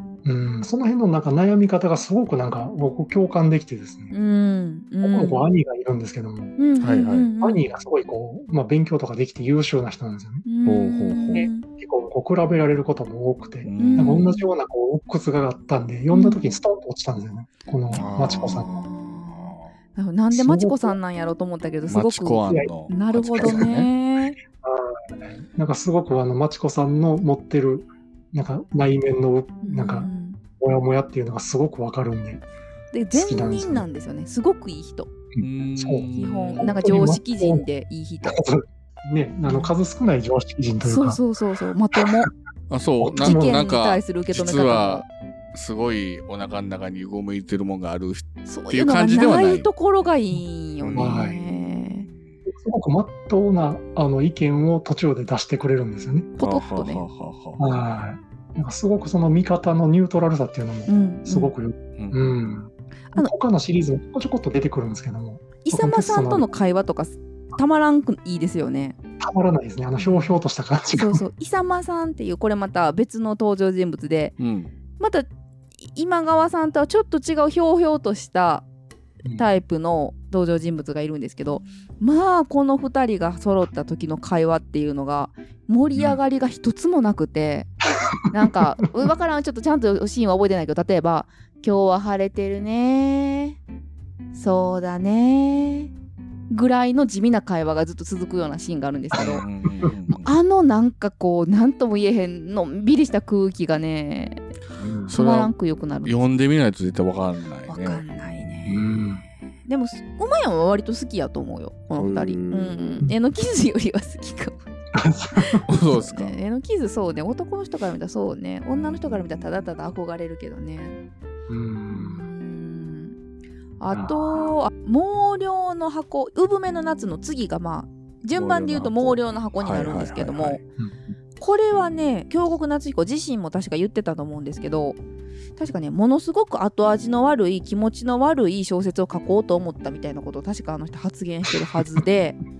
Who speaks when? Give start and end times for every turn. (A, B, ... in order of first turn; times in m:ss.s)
0:00.2-0:04.1 A
0:04.1-0:05.4 B
0:05.0-0:06.6 A
0:06.6-0:07.6 B
0:06.8-0:07.3 C
0:07.4-0:10.4 A
0:10.4-0:11.6 B
0:10.6-0:11.5 C
0:11.3-0:18.8 A
0:13.6-0:14.2 C
0:13.8-0:14.5 B
0:16.1-0:16.5 B
0:17.9-0:18.8 C
0:18.6-0:24.4 B
0:19.3-0:19.7 C
0:20.3-0:21.0 A
0:21.9-0:23.9 C
0:23.4-0:23.7 A
0:24.5-0:32.4 A
0:29.6-0:30.4 B
0:32.9-0:35.1 B
0:33.1-0:33.8 A
0:35.3-0:37.6 A
0:35.4-0:36.7 C
0:36.1-0:38.4 B
0:38.2-0:41.2 A
0:40.8-0:42.3 B
0:42.7-0:49.7 C
0:43.0-0:43.6 A
0:43.2-0:45.0 B
0:48.5-0:52.1 B
0:50.8-0:52.4 C
0:50.9-0:51.4 A
0:52.5-0:56.3 A
0:56.4-0:57.7 C
0:56.4-0:57.0 B
0:57.6-1:06.4 A
1:00.9-1:01.5 B
1:05.6-1:09.0 B
1:09.2-1:11.2 A
1:10.0-1:10.4 B
1:10.9-1:14.3 B
1:14.4-1:14.7 C
1:15.0-1:15.3 B
1:15.9-1:18.6 B
1:19.4-1:27.7 B
1:28.3-1:33.6 B
1:34.3-1:35.9 B
1:36.5-1:39.4 B
1:39.2-1:39.9 A
1:39.2-1:40.3 C
1:40.2-1:44.4 B
1:44.8-1:45.1 A
1:45.1-1:45.5 C
1:45.1-1:46.1 B
1:46.0-1:48.5 C
1:47.7-1:48.8 B
1:48.7-1:49.2 A
1:49.6-1:54.6 B
1:51.9-1:53.0 C
1:54.9-1:55.6 A
1:55.4-2:01.0 B
1:55.7-1:56.3 C
1:58.8-1:59.7 C
2:01.5-2:02.2 A
2:02.0-2:03.2 B
2:03.8-2:10.6 B
2:03.9-2:04.5 A
2:08.3-2:10.6 C
2:10.8-2:11.1 A
2:11.4-2:15.0 B
2:15.6-2:22.4 B